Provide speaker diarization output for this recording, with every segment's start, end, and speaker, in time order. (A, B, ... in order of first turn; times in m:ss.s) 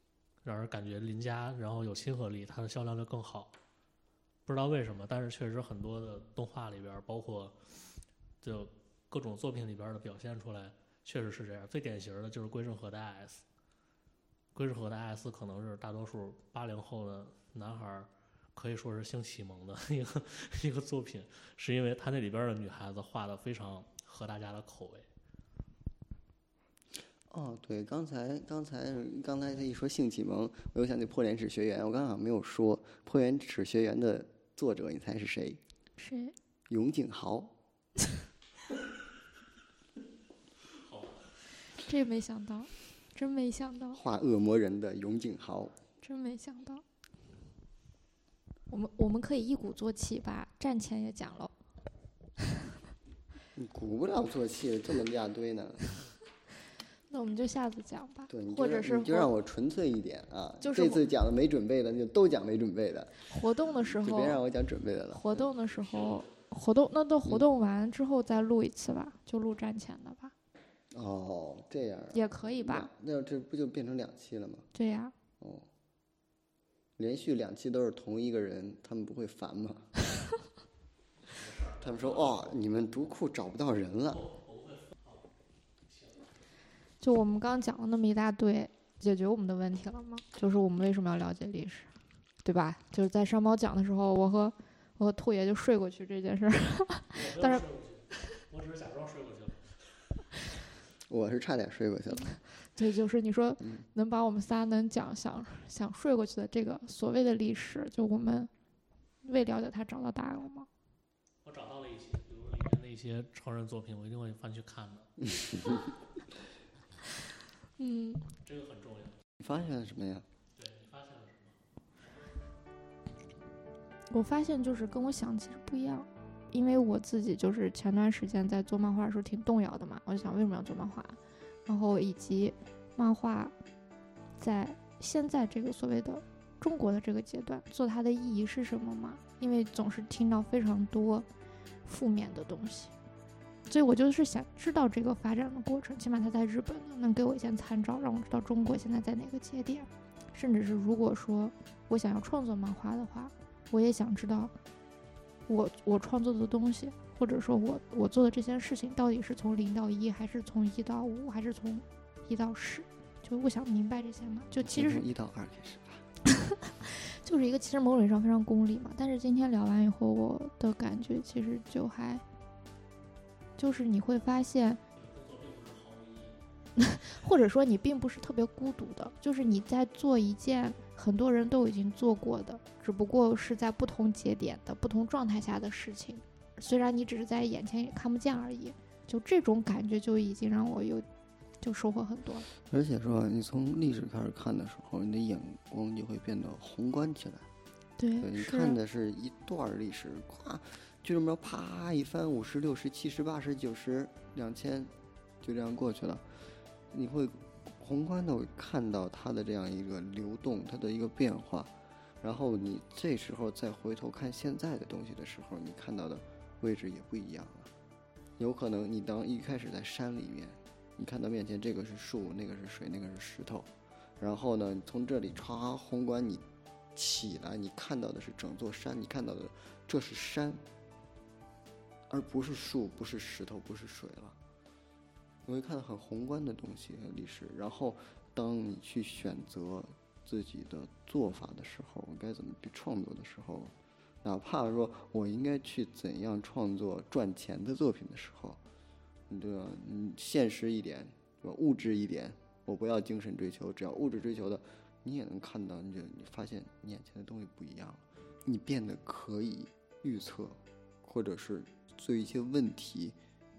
0:00.4-0:03.5 A
0:04.5-0:07.6 A
0:08.4-0:13.4 A
0:14.5-0:25.1 A
0:27.3-0:35.6 B
0:36.0-0:36.4 C
0:36.7-0:37.6 B
0:40.7-0:41.3 A
0:41.7-0:44.0 C
0:43.9-0:45.7 B
0:46.0-0:46.8 C
0:48.7-0:51.5 C
0:53.6-0:55.9 B
0:57.1-0:59.3 C
0:58.3-1:03.2 B
1:00.6-1:01.0 C
1:03.3-1:04.4 C
1:03.8-1:05.5 B
1:05.1-1:10.3 C
1:10.9-1:14.7 B
1:12.1-1:12.9 C
1:14.7-1:15.1 C
1:15.4-1:15.7 B
1:17.0-1:19.9 B
1:21.3-1:22.5 A
1:21.8-1:24.2 B
1:24.1-1:25.3 A
1:25.9-1:26.3 A
1:27.0-1:31.9 C
1:32.4-1:37.6 C
1:37.1-1:39.8 A
1:41.1-1:42.3 B
1:42.6-1:48.5 C
1:43.6-1:43.9 B
1:49.2-1:50.7 C
1:51.4-1:55.1 A
1:55.3-1:55.8 B
1:57.8-1:58.3 C
1:58.4-1:59.2 A
1:59.4-2:00.3 B
2:00.6-2:01.6 A
2:04.1-2:13.5 C
2:14.4-2:21.3 C
2:21.8-2:22.9 C
2:23.7-2:34.5 C
2:35.5-2:45.0 C
2:44.6-2:46.0 B
2:46.2-2:52.2 C
2:53.6-2:54.8 C
2:55.0-2:56.4 A
2:56.8-3:11.1 C
3:11.6-3:12.5 C
3:12.6-3:17.5 B
3:18.0-3:18.8 C
3:18.2-3:24.9 B
3:25.4-3:26.3 B
3:26.9-3:37.7 B
3:38.4-3:50.6 B
3:52.1-3:54.4 B
3:55.5-4:08.6 B
4:09.3-4:23.2 B